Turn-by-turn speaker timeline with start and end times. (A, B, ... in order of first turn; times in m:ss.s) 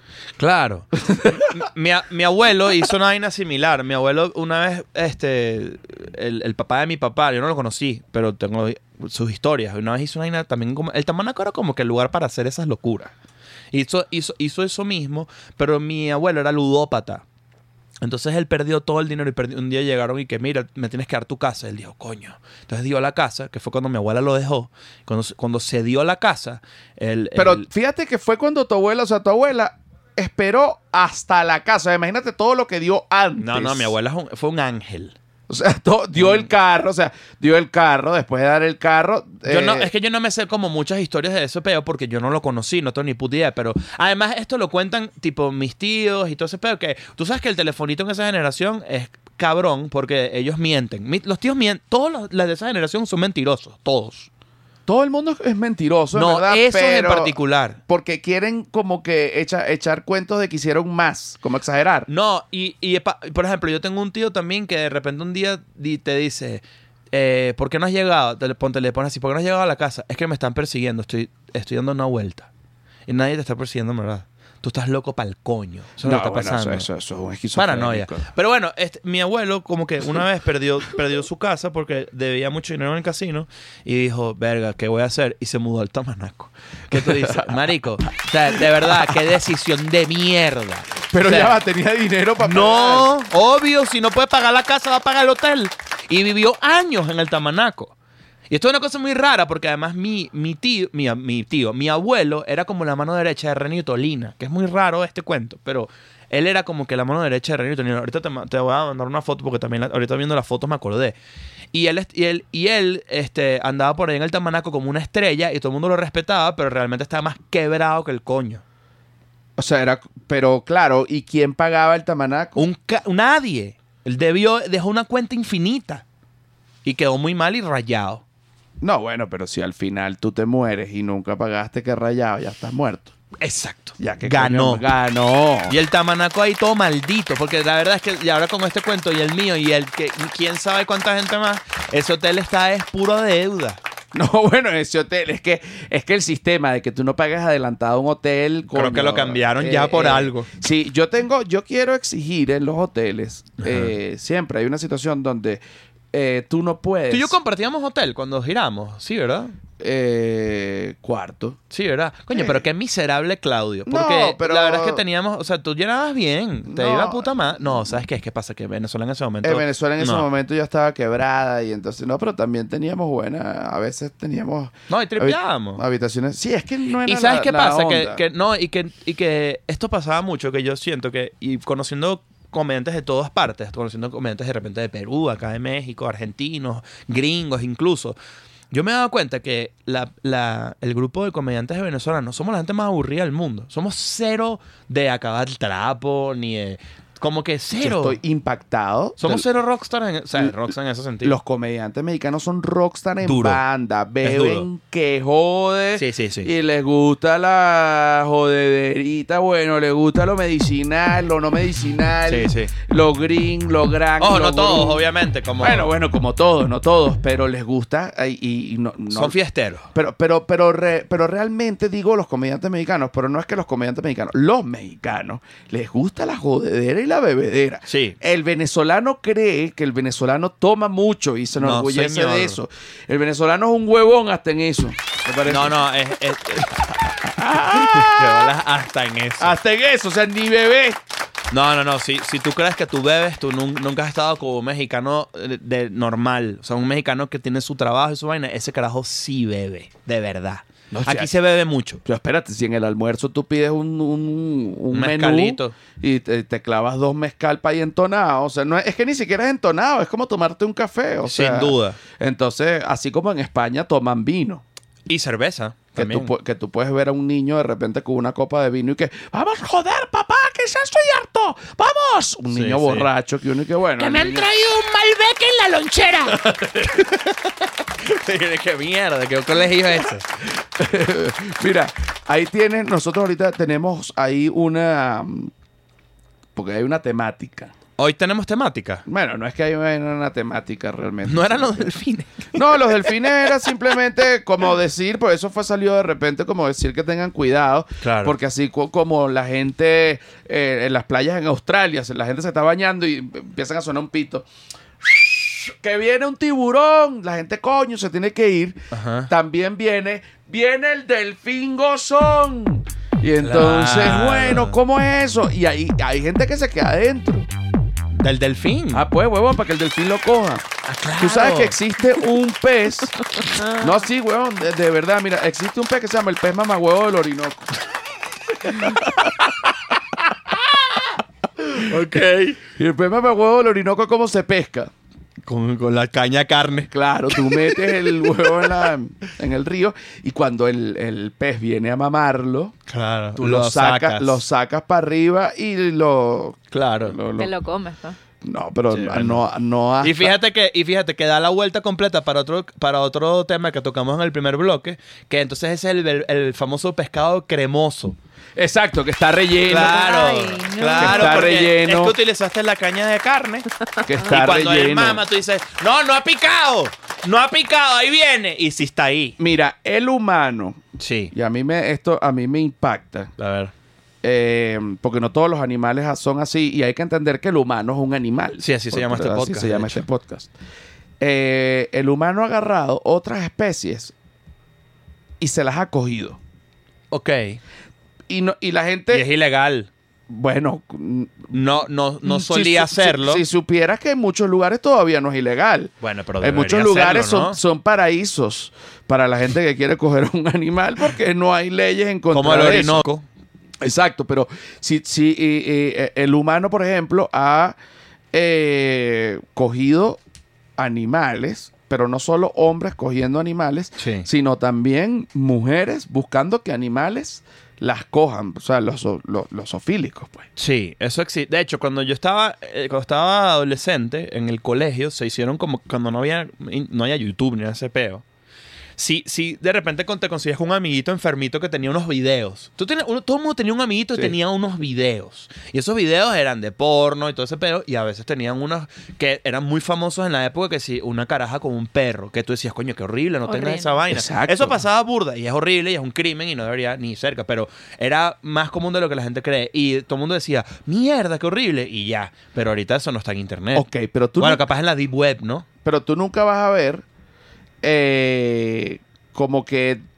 0:00.4-0:13.1 A
0:01.0-0:01.6 B
0:13.7-0:17.2 A
0:18.0-0:27.7 A
0:27.4-0:33.9 B
0:33.4-0:35.2 A
0:35.5-0:39.9 B
0:36.2-0:36.4 A
0:39.4-0:54.3 A
0:54.9-1:02.1 B
0:56.1-0:57.8 A
1:02.1-1:12.5 A
1:13.1-1:16.9 A
1:16.0-1:18.3 B
1:17.6-1:31.6 A
1:26.9-1:27.6 B
1:28.5-1:29.2 B
1:31.1-1:33.1 B
1:32.4-1:38.0 A
1:38.5-1:51.2 A
1:51.7-1:58.6 A
1:59.6-2:02.6 B
2:02.6-2:06.0 A
2:06.8-2:08.2 A
2:08.8-2:13.1 B
2:13.4-2:14.8 A
2:14.0-2:15.8 B
2:15.7-2:23.8 A
2:24.1-2:35.6 B
2:28.7-2:30.5 A
2:33.6-2:33.9 A
2:36.1-2:37.4 B
2:37.1-2:39.6 A
2:39.8-2:41.6 B
2:41.7-2:50.3 A
2:42.3-2:42.6 B
2:43.9-2:45.0 B
2:46.7-2:48.0 B
2:49.4-2:58.2 B
2:54.9-2:55.8 A
2:57.0-3:08.2 A
3:08.7-3:18.2 A
3:17.8-3:19.4 B
3:19.2-3:21.4 A
3:21.2-3:35.0 B
3:23.2-3:23.6 A
3:24.2-3:24.7 A
3:26.0-3:26.5 A
3:32.3-3:32.7 A
3:34.2-3:35.9 A
3:35.6-3:39.4 B
3:39.1-3:39.9 A
3:39.9-3:55.8 B
3:47.9-3:48.2 A
3:51.6-3:52.6 A
3:55.5-3:57.0 A
3:57.0-3:58.5 B
3:57.7-3:59.6 A
3:59.4-4:01.0 B
4:01.5-4:12.0 A
4:10.9-4:11.3 B
4:12.0-4:24.6 B
4:14.9-4:15.7 A
4:21.3-4:22.0 A
4:25.1-4:26.3 A
4:26.0-4:34.5 B
4:32.5-4:33.1 A
4:34.0-4:40.2 A
4:36.2-4:37.0 B
4:40.0-4:45.5 B
4:46.6-4:47.7 B
4:48.0-4:49.0 A
4:49.1-4:51.9 B
4:51.3-4:53.1 A
4:52.5-5:04.5 B
4:58.0-4:58.4 A
5:05.0-5:17.5 B
5:08.9-5:09.3 A
5:13.4-5:14.8 A
5:18.2-5:19.1 A
5:18.9-5:23.2 B
5:20.9-5:21.8 A
5:23.4-5:24.0 A
5:23.7-5:27.8 B
5:28.6-5:29.5 B
5:28.7-5:29.3 A
5:30.5-5:31.0 B
5:31.6-5:32.0 B
5:31.8-5:32.6 A
5:32.6-5:34.9 B
5:35.4-5:38.8 A
5:36.9-5:42.7 B
5:42.9-5:44.4 A
5:43.4-5:47.5 B
5:46.7-5:47.2 A
5:47.4-5:48.2 C
5:48.4-5:50.4 B
5:48.9-5:49.4 A
5:50.0-5:58.2 A
5:58.6-6:00.2 B
5:59.7-6:03.7 A
5:59.7-6:01.6 C
6:01.0-6:02.2 B
6:04.0-6:05.2 B
6:04.2-6:09.4 A
6:09.4-6:10.8 B
6:11.0-6:11.3 A
6:11.3-6:13.3 B
6:13.4-6:13.7 A
6:14.2-6:20.5 B
6:18.6-6:20.0 A
6:21.2-6:24.1 B
6:25.4-6:26.4 B
6:27.1-6:27.6 A
6:28.3-6:29.3 B
6:29.1-6:29.9 A
6:30.3-6:31.6 B
6:31.5-6:33.4 A
6:32.2-6:43.0 B
6:36.0-6:37.6 A
6:42.3-6:43.2 A
6:43.8-6:47.8 B
6:48.3-6:50.2 B
6:50.8-7:00.5 B
6:54.0-6:54.3 A
7:00.6-7:08.2 A
7:09.0-7:33.9 A
7:23.5-7:23.9 C
7:24.1-7:24.8 B
7:33.8-7:34.6 B
7:34.4-7:35.7 A
7:35.8-7:37.0 B
7:37.8-7:40.0 B